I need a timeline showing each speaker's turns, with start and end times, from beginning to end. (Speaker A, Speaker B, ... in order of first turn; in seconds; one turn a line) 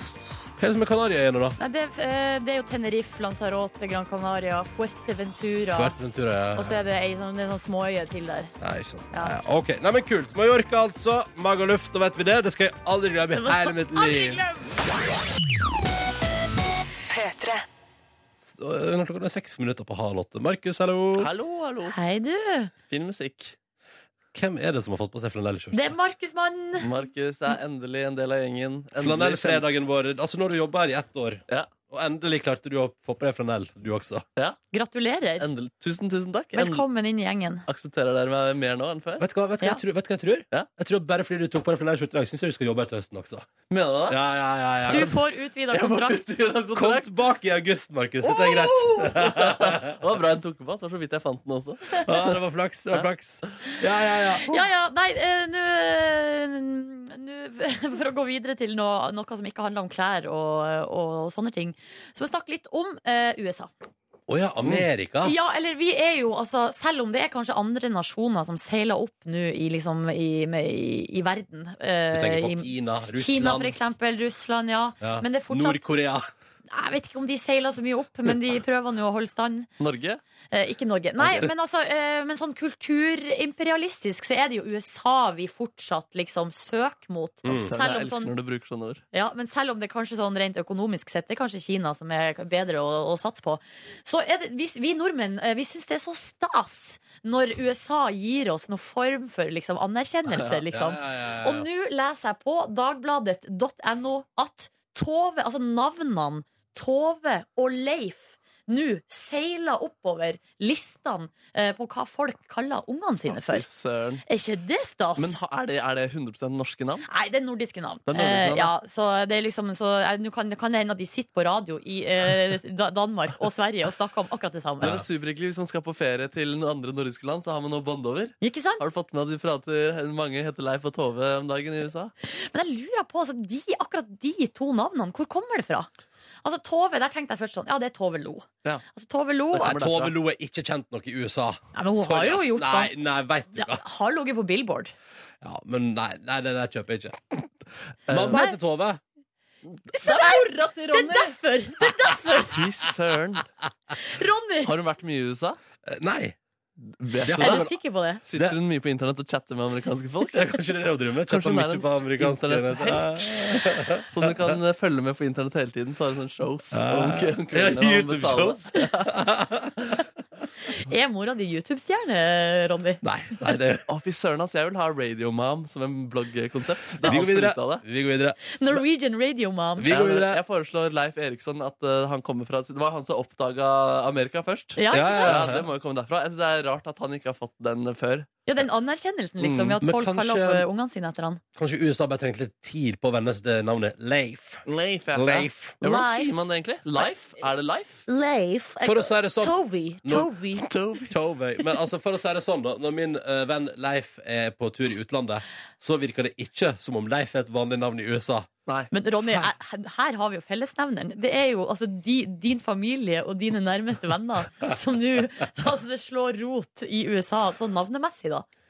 Speaker A: 0.6-1.6
Speaker B: 1.6-5.9
Speaker A: 5.7-6.8
Speaker B: 6.5-8.5
Speaker A: 8.6-14.4
Speaker B: 9.1-9.4
Speaker B: 13.3-14.8
Speaker A: 18.5-21.3
Speaker C: 21.2-22.0
Speaker B: 21.9-22.7
Speaker C: 22.9-23.6
Speaker A: 24.3-25.9
Speaker B: 25.7-26.9
Speaker C: 26.8-29.6
Speaker A: 28.9-34.2
Speaker B: 34.7-35.5
Speaker C: 35.4-36.8
Speaker B: 36.5-37.6
Speaker C: 37.7-39.2
Speaker A: 39.2-43.5
Speaker C: 43.7-44.2
Speaker A: 44.1-45.1
Speaker C: 44.9-45.1
Speaker B: 44.9-46.2
Speaker C: 45.7-47.1
Speaker A: 46.7-50.0
Speaker C: 48.2-52.3
Speaker A: 52.0-54.6
Speaker B: 54.5-63.7
Speaker A: 64.3-65.3
Speaker B: 65.2-75.8
Speaker A: 72.1-73.8
Speaker A: 75.0-76.3
Speaker B: 76.7-79.7
Speaker C: 79.8-80.2
Speaker B: 80.5-88.3
Speaker A: 81.2-81.4
Speaker A: 87.4-87.7
Speaker C: 87.6-89.0
Speaker B: 89.1-113.6
Speaker A: 100.7-101.7
Speaker C: 113.3-114.2
Speaker B: 114.3-115.4
Speaker C: 115.2-117.1
Speaker B: 117.0-125.0
Speaker C: 118.1-118.7
Speaker C: 124.8-132.1
Speaker B: 128.4-128.9
Speaker B: 132.2-135.9
Speaker B: 136.4-139.8
Speaker C: 139.5-140.1
Speaker A: 139.6-143.8
Speaker B: 141.7-142.9
Speaker B: 143.5-144.9
Speaker A: 145.4-147.5
Speaker A: 148.1-149.0
Speaker C: 148.1-148.4
Speaker B: 148.3-148.6
Speaker B: 149.9-152.6
Speaker C: 150.1-151.3
Speaker C: 152.4-153.5
Speaker B: 154.0-154.7
Speaker C: 154.6-155.6
Speaker A: 155.8-156.4
Speaker C: 156.9-157.7
Speaker A: 157.2-157.7
Speaker B: 157.3-158.2
Speaker C: 158.2-160.6
Speaker A: 160.3-164.6
Speaker C: 161.3-169.1
Speaker A: 166.7-169.7
Speaker B: 170.7-173.0
Speaker A: 173.0-173.8
Speaker C: 173.9-177.8
Speaker A: 177.0-178.8
Speaker B: 178.5-179.9
Speaker A: 179.8-180.4
Speaker C: 179.9-188.3
Speaker B: 184.8-185.5
Speaker A: 184.9-185.7
Speaker B: 188.4-191.4
Speaker C: 189.4-189.8
Speaker A: 189.8-190.7
Speaker A: 191.6-195.8
Speaker C: 194.7-198.0
Speaker B: 195.8-196.4
Speaker B: 198.1-200.7
Speaker A: 198.8-200.3
Speaker C: 200.7-201.2
Speaker A: 201.0-208.5
Speaker B: 208.9-218.4